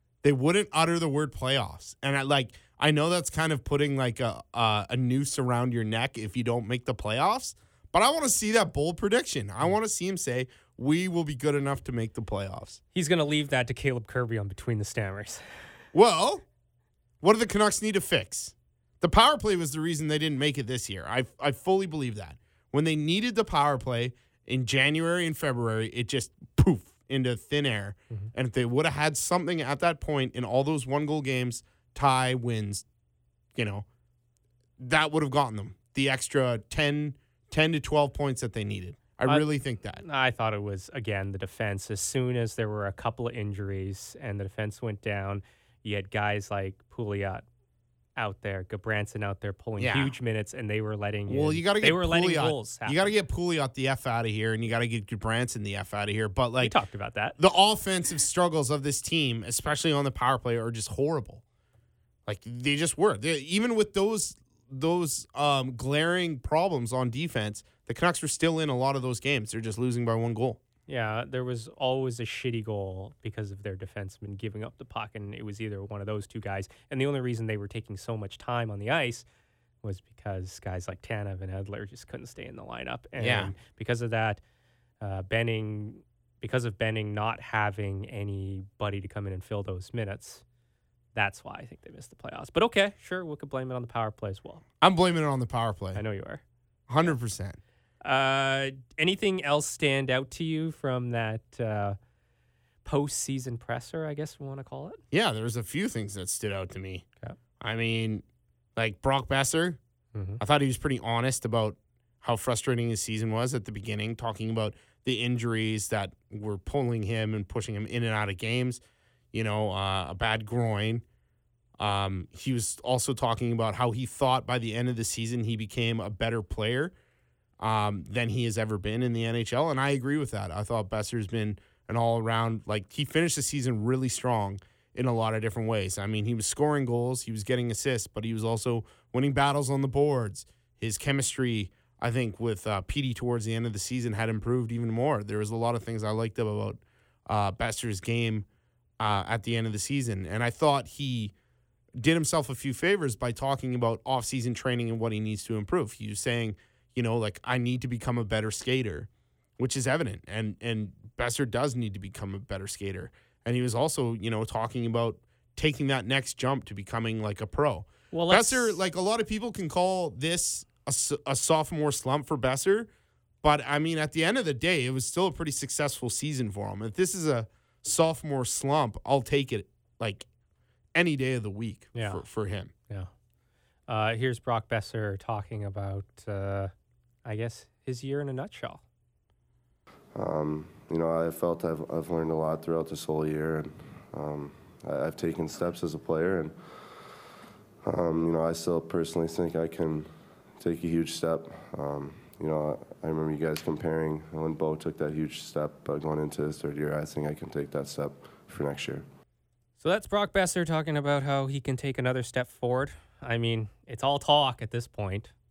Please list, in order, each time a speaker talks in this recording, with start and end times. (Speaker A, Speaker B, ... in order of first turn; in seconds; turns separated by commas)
Speaker A: 0.2-12.8, Speaker B: 12.9-15.4, Speaker A: 15.9-16.4, Speaker A: 17.2-32.8, Speaker A: 33.5-33.8, Speaker A: 34.8-40.0, Speaker B: 40.0-47.4, Speaker B: 48.1-53.1, Speaker A: 49.8-50.1, Speaker A: 51.3-56.7, Speaker B: 56.6-57.4, Speaker A: 57.4-61.4, Speaker A: 62.2-70.6, Speaker B: 70.9-79.2, Speaker B: 79.8-84.4, Speaker A: 83.2-83.5, Speaker B: 85.0-90.4, Speaker B: 91.1-94.6, Speaker A: 94.8-96.0, Speaker B: 95.9-96.4, Speaker A: 96.9-97.6, Speaker B: 98.0-102.0, Speaker B: 102.8-105.0, Speaker A: 105.1-107.0, Speaker A: 107.6-108.2, Speaker A: 108.8-109.8, Speaker B: 110.1-110.4, Speaker A: 110.4-118.8, Speaker A: 119.3-121.0, Speaker A: 121.8-126.9, Speaker A: 127.6-148.4, Speaker A: 149.0-151.3, Speaker A: 152.0-172.9, Speaker B: 168.1-168.8, Speaker A: 173.4-180.2, Speaker A: 180.9-182.7, Speaker B: 181.9-182.2, Speaker B: 183.9-186.7, Speaker B: 187.2-188.8, Speaker C: 190.1-196.6, Speaker C: 197.8-209.1, Speaker B: 209.8-215.3